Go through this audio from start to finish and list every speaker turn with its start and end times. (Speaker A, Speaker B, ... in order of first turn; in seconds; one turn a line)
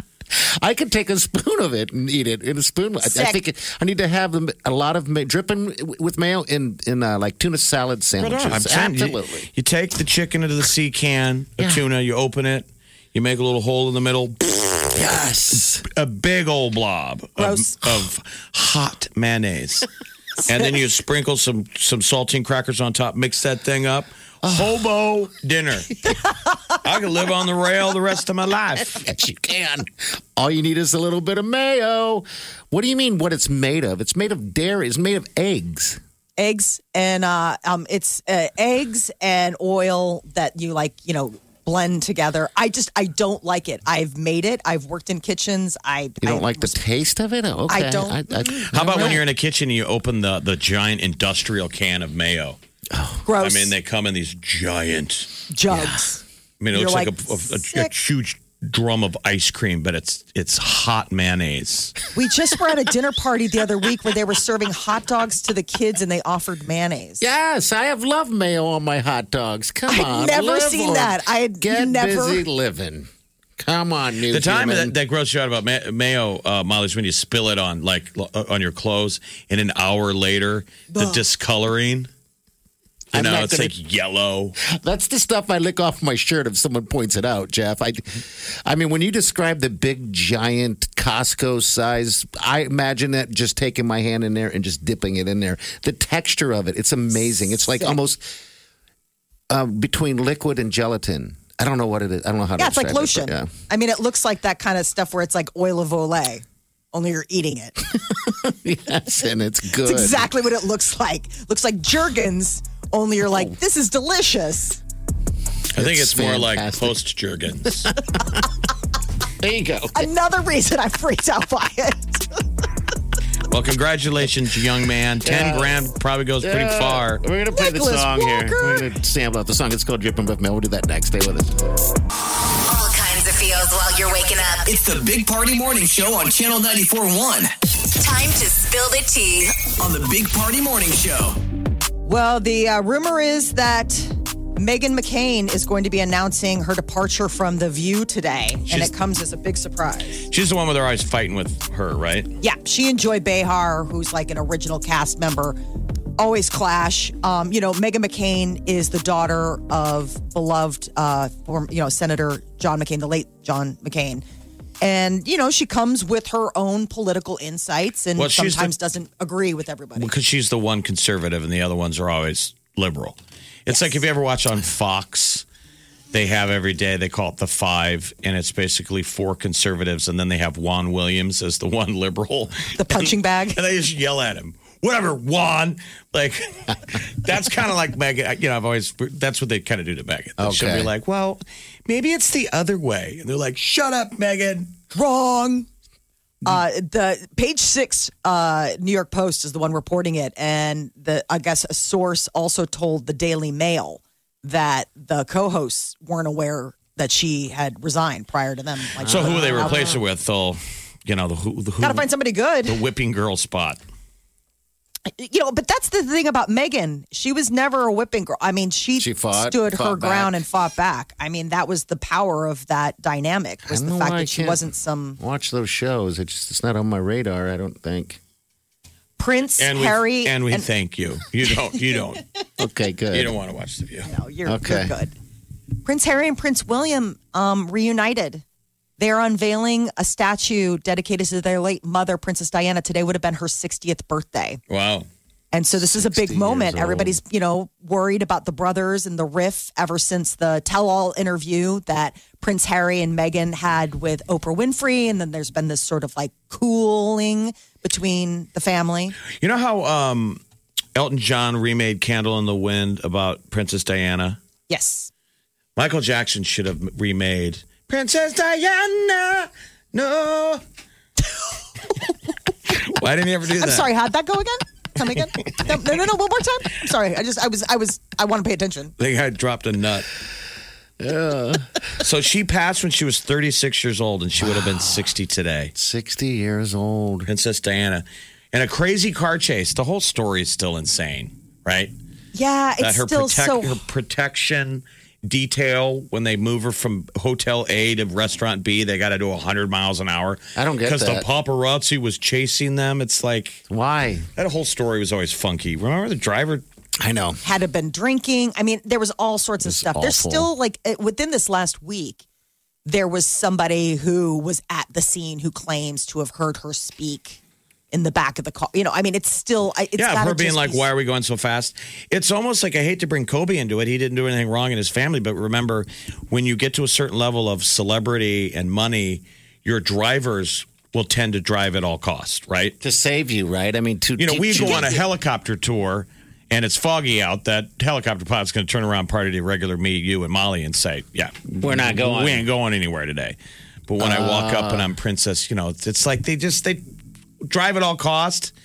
Speaker A: 0.3-9.5
Speaker B: 3.0-3.4
Speaker C: 8.2-14.9
Speaker A: 14.9-15.8
Speaker C: 15.8-19.9
Speaker B: 17.4-17.8
Speaker C: 20.4-26.0
Speaker A: 24.4-24.8
Speaker C: 26.8-29.0
Speaker A: 28.9-36.0
Speaker B: 36.4-46.8
Speaker A: 46.2-49.2
Speaker B: 47.7-49.1
Speaker C: 48.7-52.6
Speaker A: 52.9-53.2
Speaker B: 53.2-53.7
Speaker C: 53.4-55.3
Speaker B: 55.5-56.2
Speaker C: 56.6-62.0
Speaker B: 56.7-57.9
Speaker B: 62.1-67.2
Speaker A: 67.2-74.9
Speaker B: 69.9-72.4
Speaker C: 74.3-82.1
Speaker B: 80.9-81.2
Speaker A: 83.1-83.7
Speaker C: 83.1-84.5
Speaker A: 84.6-98.3
Speaker A: 99.5-103.5
Speaker B: 102.6-107.8
Speaker A: 107.9-110.3
Speaker B: 109.8-114.8
Speaker C: 115.7-117.9
Speaker A: 115.7-117.0
Speaker A: 119.4-120.1
Speaker B: 119.9-122.4
Speaker C: 123.5-127.2
Speaker A: 125.2-125.7
Speaker A: 126.4-131.6
Speaker B: 127.5-128.8
Speaker D: 132.7-134.7
Speaker E: 134.7-137.5
Speaker D: 138.0-139.7
Speaker E: 139.8-141.4
Speaker B: 142.0-150.2
Speaker C: 150.3-152.3
Speaker B: 152.4-155.6
Speaker B: 156.2-164.2
Speaker B: 164.8-170.1
Speaker C: 168.2-168.7
Speaker C: 170.0-175.4
Speaker B: 173.7-174.0
Speaker C: 176.1-194.7
Speaker B: 182.8-183.6
Speaker A: 190.4-190.9
Speaker B: 194.9-195.7
Speaker B: 196.4-210.0
Speaker A: 209.0-209.9
Speaker C: 209.1-212.1
Speaker B: 211.8-212.8
Speaker C: 212.6-213.8
Speaker B: 215.2-225.2
Speaker A: 219.0-220.3
Speaker A: 223.7-228.2
Speaker B: 229.2-230.7
Speaker C: 229.6-232.2
Speaker A: 232.6-233.3
Speaker C: 233.1-234.1
Speaker B: 234.1-235.1
Speaker A: 234.4-234.9
Speaker B: 235.8-238.4
Speaker B: 239.0-244.6
Speaker C: 244.7-245.1
Speaker B: 245.5-259.1
Speaker A: 245.8-247.2
Speaker C: 259.4-260.4
Speaker C: 260.9-264.4
Speaker B: 264.7-265.1
Speaker C: 265.8-270.6
Speaker C: 272.7-273.9
Speaker B: 273.6-278.9
Speaker C: 279.0-280.1
Speaker A: 281.0-281.7
Speaker C: 282.0-285.7
Speaker A: 284.4-285.1
Speaker A: 285.7-287.3
Speaker C: 287.3-291.9
Speaker B: 292.3-293.8
Speaker C: 292.8-303.6
Speaker A: 300.6-301.2
Speaker A: 303.7-304.2
Speaker C: 304.4-306.6
Speaker A: 307.0-307.4
Speaker B: 307.4-312.2
Speaker A: 309.6-310.5
Speaker B: 312.9-317.4
Speaker B: 317.9-320.8
Speaker C: 320.0-332.8
Speaker A: 332.8-335.0
Speaker C: 334.2-343.4
Speaker A: 341.6-342.5
Speaker C: 343.9-346.8
Speaker A: 344.0-344.9
Speaker C: 347.4-348.5